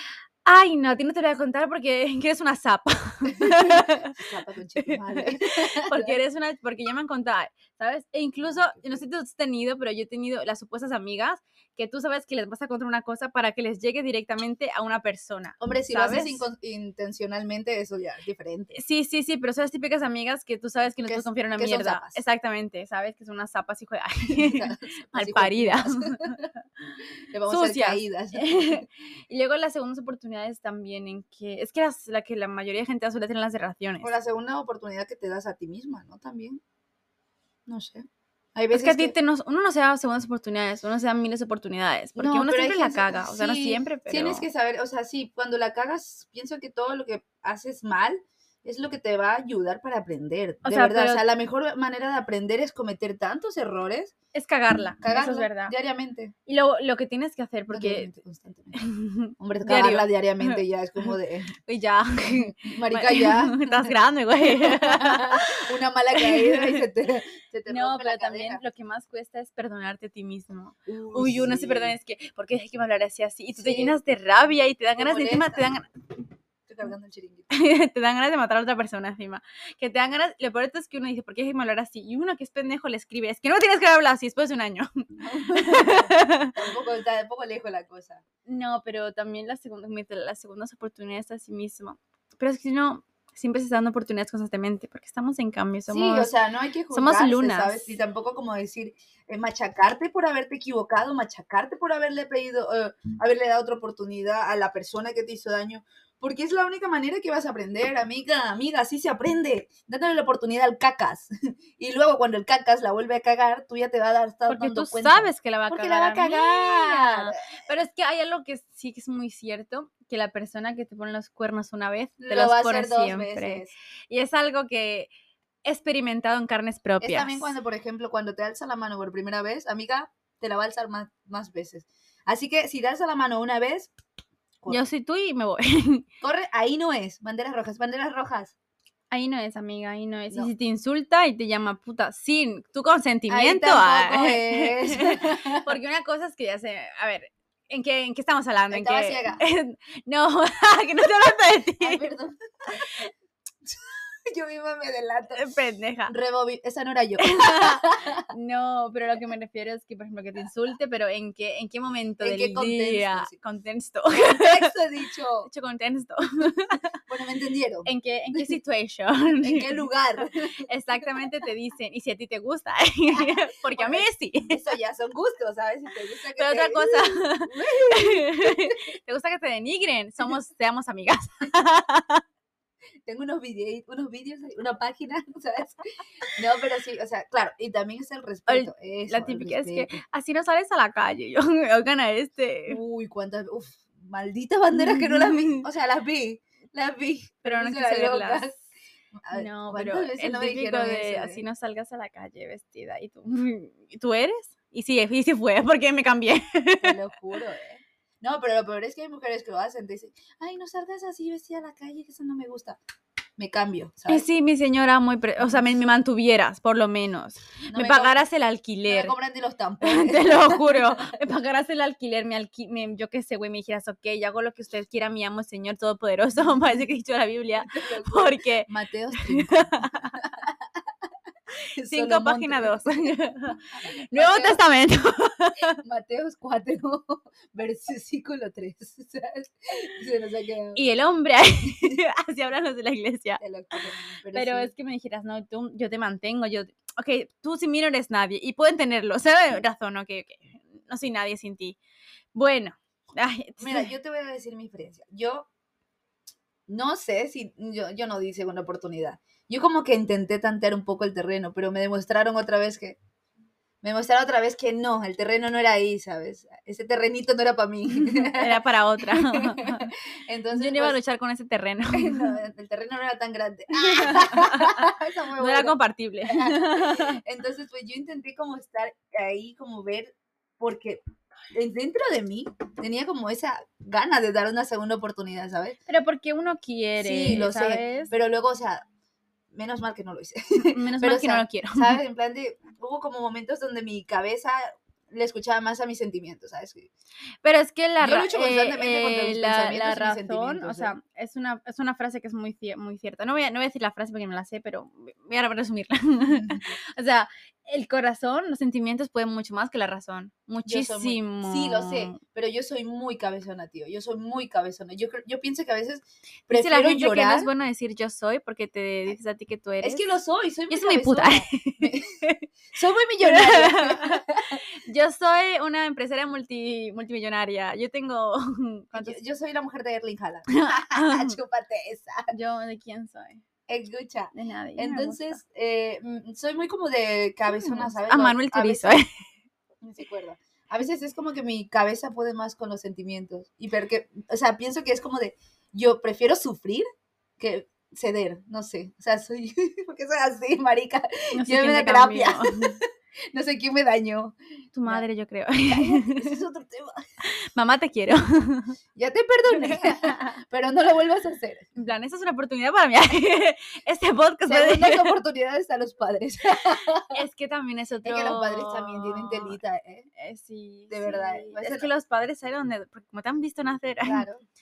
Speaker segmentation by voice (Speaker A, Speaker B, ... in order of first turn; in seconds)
Speaker A: 0.5-4.2, 4.8-16.5, 18.7-26.5, 27.5-34.1, 38.7-44.5, 50.6-51.2, 54.3-55.7, 56.5-58.1, 58.8-65.6, 66.2-66.8, 67.7-75.9, 77.5-86.6, 88.5-96.3, 96.9-98.0, 114.5-125.1, 125.7-127.5, 134.7-136.0, 139.1-152.1, 155.3-156.2, 157.2-164.7, 165.4-166.9, 167.8-169.9, 170.7-174.6, 176.4-182.2, 188.5-192.8, 194.7-195.7, 197.4-198.6, 199.3-207.0, 214.1-219.1, 219.8-230.2, 231.8-235.8, 240.8-243.4, 244.3-251.8, 252.3-253.9, 268.1-269.9, 270.5-272.4, 273.7-277.2, 285.9-288.1, 290.6-292.0, 297.4-312.2, 316.5-320.1, 320.7-322.5, 323.2-324.3, 324.8-329.2, 330.5-331.4, 332.3-333.4, 334.3-335.4, 337.5-339.1, 351.4-352.8, 354.8-356.4, 357.2-358.8, 359.5-360.4, 361.8-365.2, 367.1-369.6, 370.2-374.3
Speaker B: 3.3-6.2, 8.4-9.0, 15.6-18.8, 21.1-22.2, 24.3-26.4, 27.3-28.9, 34.0-36.6, 37.7-39.1, 42.2-54.1, 55.0-56.3, 57.7-58.8, 59.4-61.5, 62.3-68.6, 70.9-72.0, 73.6-74.0, 75.0-75.7, 76.7-77.5, 85.2-88.2, 95.9-117.4, 122.2-123.7, 127.0-133.9, 136.2-138.5, 143.3-145.7, 148.7-149.4, 151.8-152.9, 153.6-155.4, 156.1-158.3, 162.2-163.3, 164.1-165.5, 167.1-168.6, 169.4-170.7, 173.1-178.8, 183.1-189.9, 192.7-198.6, 199.2-201.4, 206.8-212.8, 213.4-214.3, 217.7-218.2, 218.9-221.0, 227.6-230.7, 231.8-233.2, 234.1-234.6, 235.8-240.8, 243.4-244.7, 253.6-255.5, 256.7-263.0, 263.8-271.0, 271.9-275.8, 276.3-281.0, 281.5-285.8, 287.0-288.9, 289.5-296.9, 298.0-300.9, 306.4-306.6, 310.6-317.5, 319.8-322.2, 322.7-324.6, 328.9-332.3, 333.7-339.0, 339.8-346.8, 347.4-354.4, 355.7-357.1, 358.9-361.7, 364.4-367.2, 368.0-370.1, 370.9-371.9, 374.0-374.4